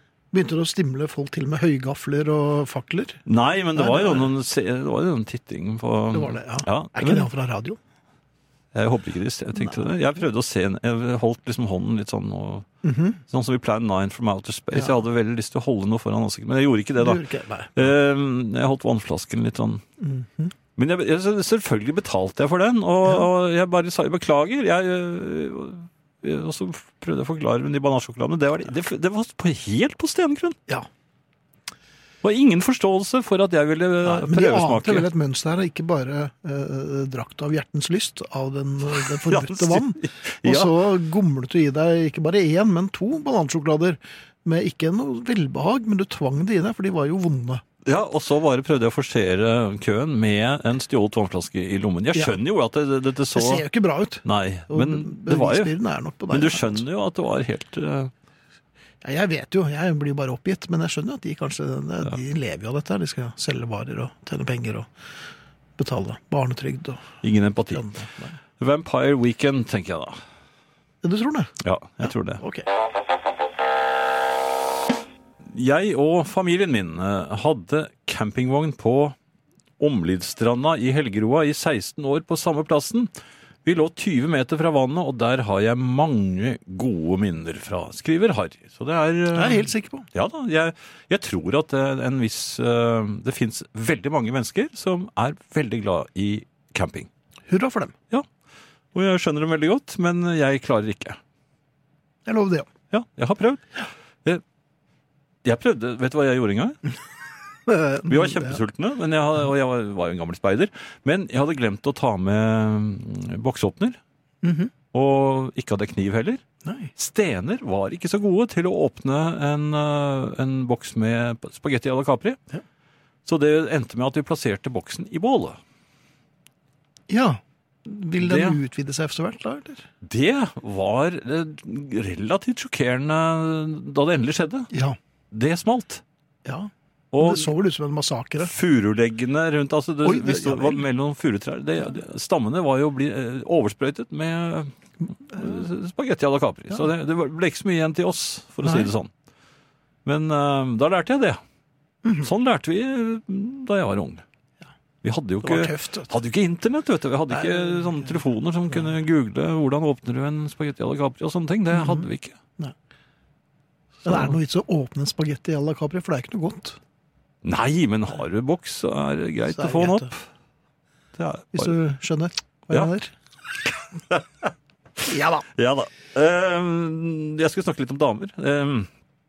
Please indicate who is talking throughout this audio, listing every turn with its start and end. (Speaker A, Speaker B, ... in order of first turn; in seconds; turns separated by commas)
Speaker A: 0.3-3.2, Speaker B: 3.3-7.3, Speaker A: 3.8-4.3, Speaker A: 6.1-7.8, Speaker B: 8.7-12.7, Speaker A: 9.6-9.9, Speaker A: 12.8-13.2, Speaker B: 13.3-17.2, Speaker A: 17.0-17.9, Speaker B: 17.8-19.8, Speaker A: 20.0-20.5, Speaker B: 20.8-30.6, Speaker B: 32.2-35.1, Speaker A: 34.0-47.6, Speaker B: 39.2-40.8, Speaker B: 47.9-53.6, Speaker A: 53.3-56.8, Speaker B: 54.2-55.7, Speaker B: 56.3-58.1, Speaker A: 59.0-64.9, Speaker A: 65.8-67.1, Speaker B: 67.2-67.9, Speaker A: 67.7-68.4, Speaker B: 68.6-70.2, Speaker A: 71.0-71.5, Speaker B: 71.6-72.4, Speaker A: 72.0-72.7, Speaker B: 75.5-79.2, Speaker B: 79.8-83.1, Speaker B: 83.7-97.1, Speaker A: 89.3-90.1, Speaker A: 97.5-98.0, Speaker B: 98.9-101.2, Speaker A: 102.3-102.7, Speaker B: 102.9-104.4, Speaker B: 105.5-106.8, Speaker A: 107.7-108.6, Speaker B: 108.0-114.0, Speaker A: 114.4-114.7, Speaker B: 114.9-116.4, Speaker A: 116.6-116.9, Speaker B: 117.0-122.4, Speaker B: 123.3-125.6, Speaker A: 127.1-129.9, Speaker B: 128.2-128.6, Speaker B: 130.0-134.7, Speaker A: 134.7-135.0, Speaker B: 135.3-136.0, Speaker A: 136.4-138.5, Speaker B: 137.1-137.5, Speaker B: 138.4-144.7, Speaker A: 140.0-140.8, Speaker B: 145.3-149.1, Speaker A: 148.6-148.9, Speaker B: 150.1-151.4, Speaker A: 152.0-152.3, Speaker B: 152.2-154.2, Speaker B: 155.0-162.4, Speaker A: 155.4-156.1, Speaker A: 157.3-158.2, Speaker A: 161.7-162.1, Speaker B: 164.0-164.3, Speaker A: 164.1-166.8, Speaker B: 167.4-170.2, Speaker A: 169.5-170.1, Speaker B: 171.2-171.7, Speaker A: 171.5-173.1, Speaker B: 174.1-178.9, Speaker A: 175.1-175.5